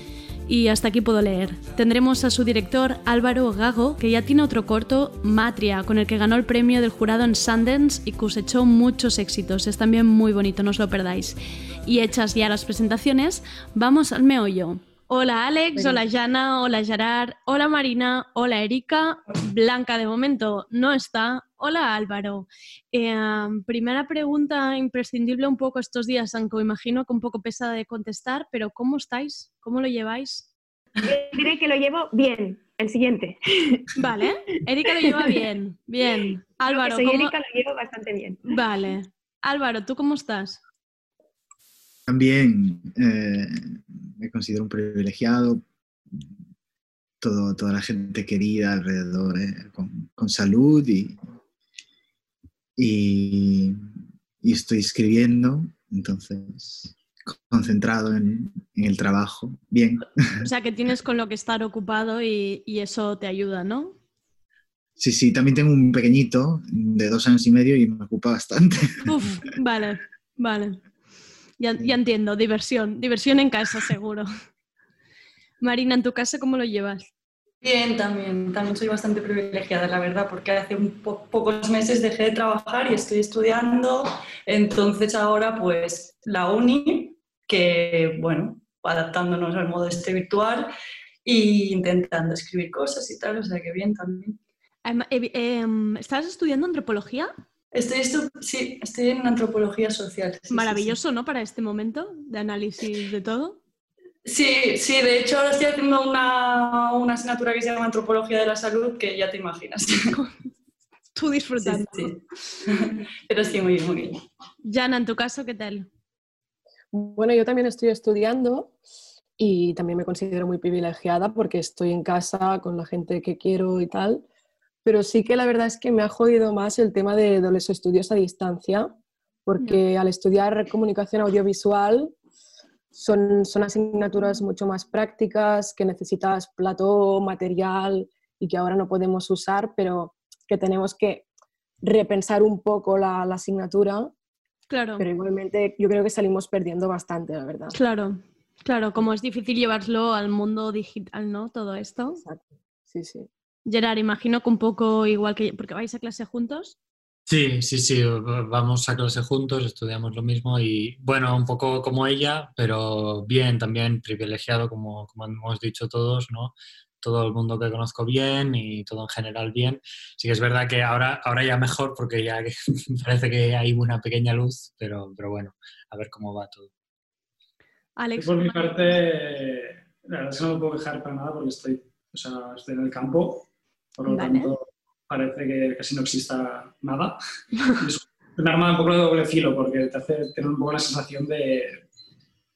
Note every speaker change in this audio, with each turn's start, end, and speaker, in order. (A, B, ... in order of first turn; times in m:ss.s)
0:00.5-0:30.5 A
0:31.0-0:34.0 B
0:34.0-0:37.3 A
0:36.6-0:38.5 B
0:38.4-0:40.6 A
0:42.1-0:46.2 C
0:47.2-0:51.2 C
0:52.8-0:53.8 C
0:54.4-1:00.5 C
1:00.4-1:04.0 A
1:05.0-1:09.1 C
1:09.0-1:10.8 A
1:11.6-1:14.3 A
1:15.6-1:17.1 A
1:17.6-1:30.7 D
1:31.2-1:34.4 D
1:34.8-1:37.3 A
1:37.7-1:40.9 D
1:40.5-1:43.6 A
1:44.2-1:50.2 D
1:51.2-1:52.1 A
1:51.6-1:54.2 D
1:54.6-1:55.9 A
1:56.9-1:58.8 E
1:59.4-2:04.2 E
2:04.8-2:08.9 E
2:09.4-2:12.2 E
2:12.9-2:21.2 E
2:21.8-2:24.1 E
2:24.7-2:25.0 A
2:25.0-2:27.7 E
2:27.7-2:32.2 A
2:32.2-2:33.3 E
2:33.7-2:36.8 A
2:37.3-2:56.7 F
2:58.0-2:59.0 A
2:58.2-3:07.2 G
3:04.1-3:04.5 A
3:07.7-3:11.8 G